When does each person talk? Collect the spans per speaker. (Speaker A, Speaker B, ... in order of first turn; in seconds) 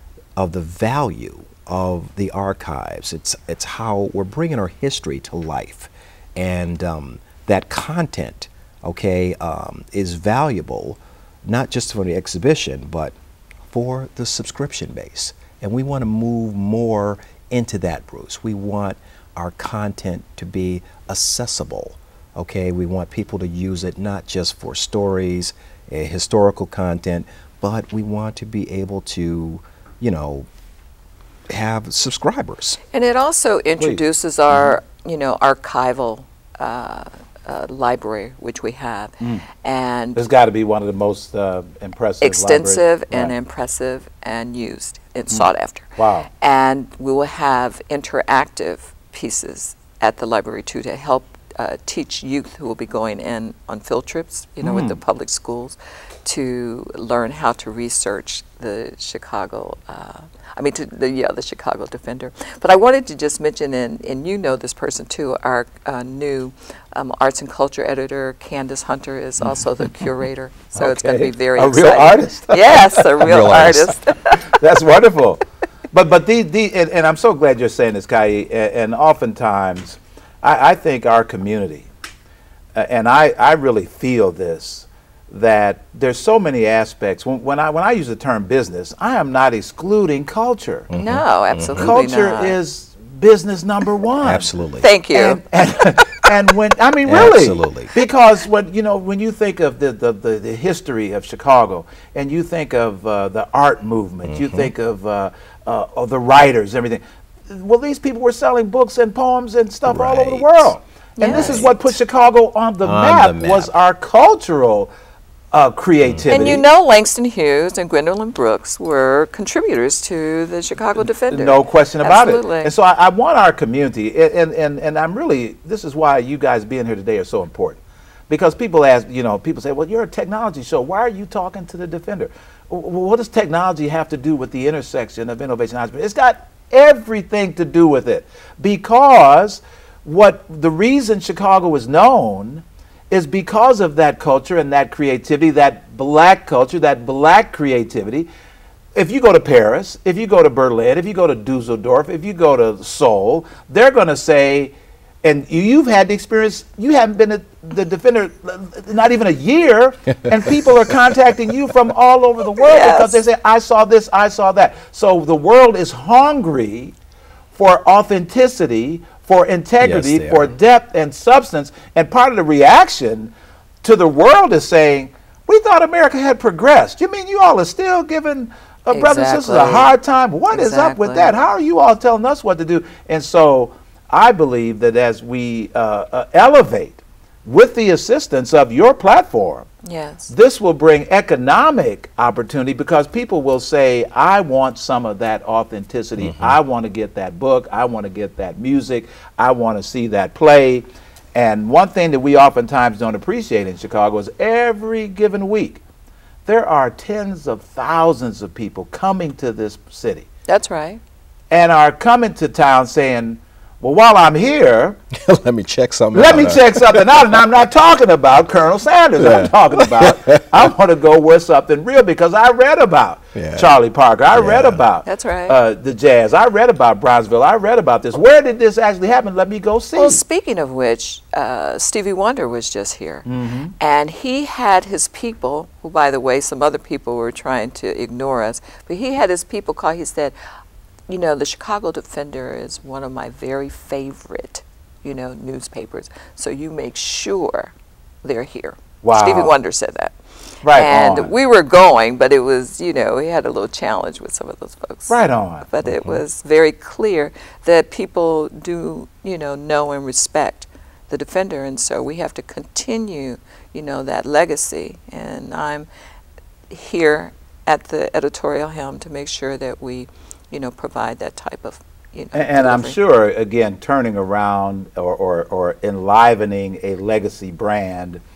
Speaker A: 0.3-13.2, 13.7-30.5, 31.5-32.8, 73.2-73.9, 90.9-91.9, 94.2-94.9, 97.0-97.9, 104.2-104.7, 109.9-110.7, 111.2-111.7, 112.8-113.7, 116.0-116.5, 169.8-170.5, 196.2-196.6, 215.1-217.5, 219.2-220.7, 223.3-223.8, 224.3-224.8, 255.8-256.2
Speaker B: 32.9-40.2, 42.2-45.9, 46.4-74.5, 91.0-92.5, 94.8-95.4, 111.2-111.7, 116.3-122.7, 162.6-163.2, 178.9-179.9, 180.5-181.3, 189.8-190.3, 210.5-211.0, 225.0-225.6, 229.9-233.3, 233.8-240.3, 241.1-247.7, 248.2-265.9, 266.7-273.0
Speaker C: 33.8-34.7, 40.1-43.3, 46.0-46.3, 69.4-70.1, 70.8-73.7, 74.3-81.9, 82.7-90.9, 91.7-94.5, 95.1-114.9, 115.5-116.6, 121.3-148.3, 148.9-166.9, 167.5-173.3, 173.8-189.7, 190.3-205.8, 206.4-210.3, 211.5-215.0, 216.1-230.2, 233.2-233.7, 249.0-249.5, 250.6-251.3, 255.1-255.7, 272.3-278.2